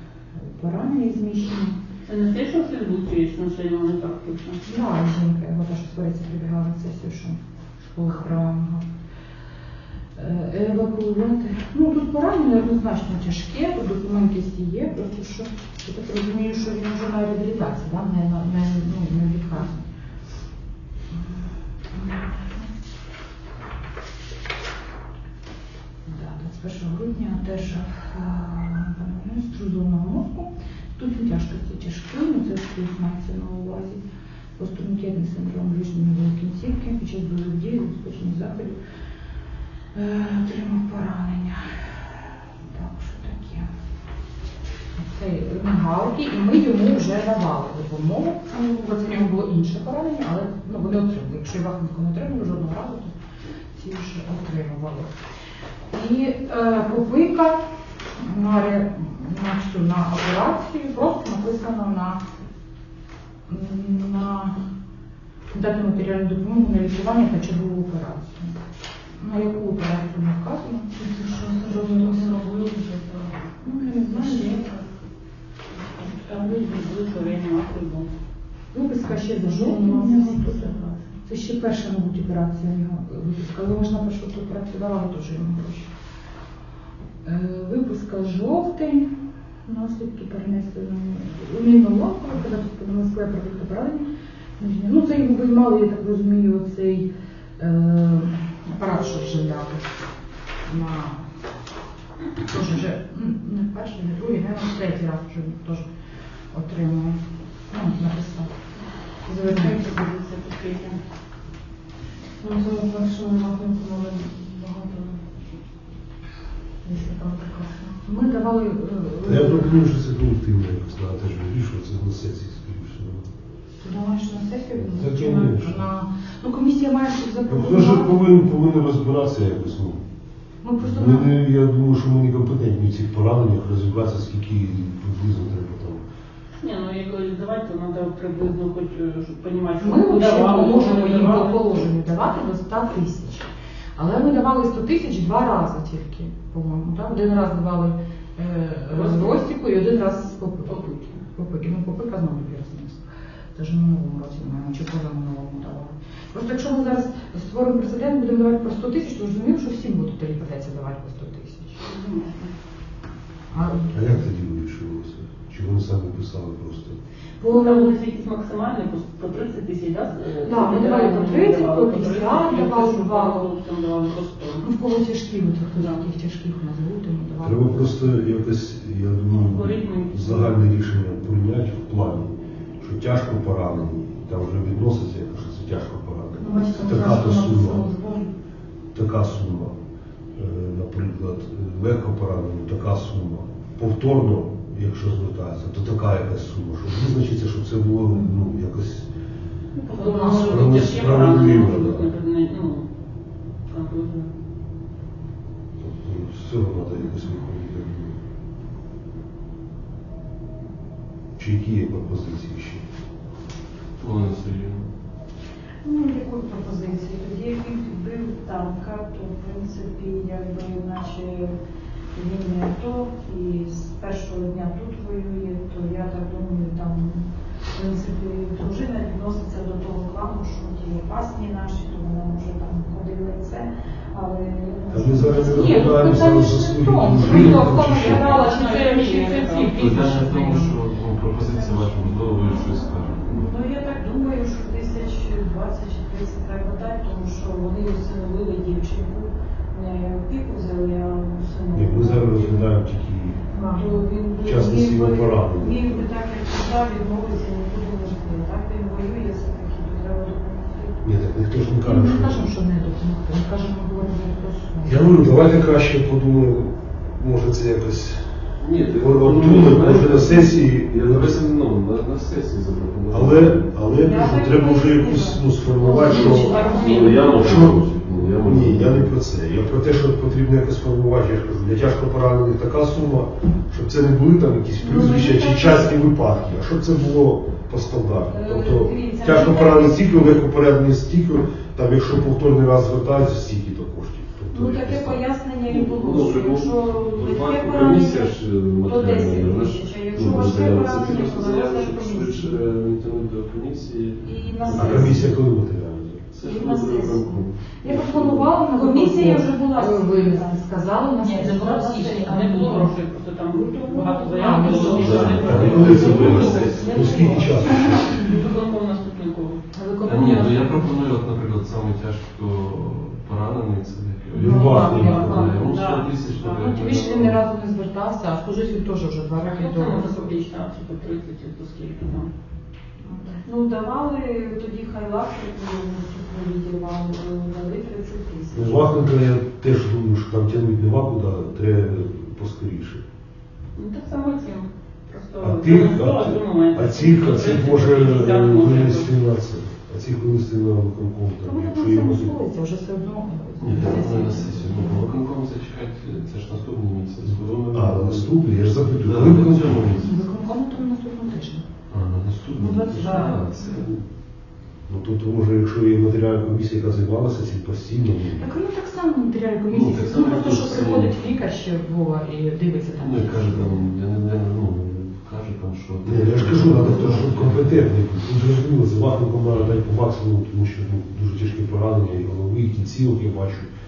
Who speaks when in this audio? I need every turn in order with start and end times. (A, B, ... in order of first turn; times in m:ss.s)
0:00.4-0:01.8 A
0:02.1-0:04.6 B
0:04.6-0:08.8 A
0:10.2-0:19.8 A
0:21.1-0:22.7 A
0:26.1-0:34.0 A
0:34.6-0:38.8 A
0:39.9-0:43.7 A
0:45.0-0:53.1 A
0:53.8-0:55.1 A
0:55.9-0:57.6 A
0:58.2-1:02.2 A
1:03.5-1:04.6 A
1:05.5-1:08.6 A
1:09.2-1:10.9 A
1:11.0-1:14.9 C
1:11.6-1:12.3 A
1:13.6-1:14.7 A
1:16.0-1:18.1 B
1:18.7-1:25.9 A
1:19.4-1:21.1 C
1:27.2-1:34.1 A
1:34.6-1:39.8 A
1:40.7-1:41.2 A
1:42.5-1:45.9 A
1:46.5-1:48.5 A
1:49.3-1:49.8 A
1:49.4-1:51.0 C
1:52.4-1:55.2 C
1:56.8-1:58.0 C
1:58.0-1:59.8 A
1:59.2-2:03.3 D
2:03.8-2:08.2 A
2:04.8-2:05.8 D
2:07.5-2:10.0 D
2:10.6-2:11.3 A
2:10.8-2:16.0 D
2:16.6-2:21.8 B
2:19.8-2:41.8 A
2:28.9-2:29.4 B
2:41.8-2:42.5 B
2:43.5-2:44.1 A
2:43.9-2:47.0 D
2:47.4-2:48.0 A
2:47.4-2:54.7 B
2:50.4-2:53.5 A
2:54.6-2:58.0 A
2:55.8-2:56.0 B
2:57.4-3:07.9 D
2:59.4-3:00.6 B
3:06.4-3:08.3 C
3:08.9-3:09.8 D
3:10.4-3:19.1 D
3:19.8-3:22.9 B
3:20.0-3:20.5 A
3:20.2-3:22.1 D
3:23.7-3:24.3 B
3:25.8-3:28.2 D
3:31.4-3:32.9 D
3:34.0-3:34.9 E
3:35.8-3:41.5 C
3:42.1-3:56.0 C
3:54.9-3:58.4 D
3:55.3-4:00.8 A
3:57.3-3:58.1 E
3:58.2-3:59.8 B
3:59.8-4:03.5 E
4:01.3-4:12.7 C
4:11.7-4:13.4 D
4:13.5-4:21.0 C
4:13.6-4:13.9 A
4:14.4-4:16.0 D
4:21.0-4:22.5 D
4:21.8-4:25.0 A
4:24.8-4:28.3 D
4:28.6-4:33.7 E
4:29.0-4:31.5 D
4:33.1-4:37.8 D
4:34.0-4:37.4 C
4:36.0-4:37.7 B
4:36.5-4:39.1 E
4:38.4-4:55.2 D
4:44.8-4:45.9 C
4:48.3-4:50.0 C
4:54.5-5:02.6 C
4:55.6-5:05.3 E
5:04.2-5:05.2 C
5:04.7-5:06.3 D
5:06.3-5:08.6 E
5:06.4-5:07.4 C
5:07.8-5:12.9 A
5:08.6-5:12.9 C
5:12.1-5:16.9 B
5:13.5-5:18.3 C
5:13.8-5:15.9 A
5:14.9-5:17.0 E
5:15.2-5:18.3 D
5:17.6-5:19.6 B
5:19.7-5:21.0 A
5:20.0-5:27.4 E
5:24.3-5:25.6 D
5:24.4-5:25.8 A
5:24.7-5:25.7 C
5:25.7-5:26.7 B
5:26.6-5:30.3 A
5:29.4-5:32.3 B
5:33.1-5:39.0 C
5:38.5-5:43.0 D
5:43.8-5:49.1 B
5:45.4-5:52.4 D
5:51.4-5:55.1 A
5:53.6-6:00.2 E
5:57.2-6:00.0 D
6:00.0-6:01.6 A
6:01.9-6:04.0 E
6:02.5-6:03.6 C
6:04.9-6:08.5 D
6:08.4-6:13.9 A
6:09.7-6:11.1 E
6:13.0-6:17.8 E
6:16.0-6:23.7 D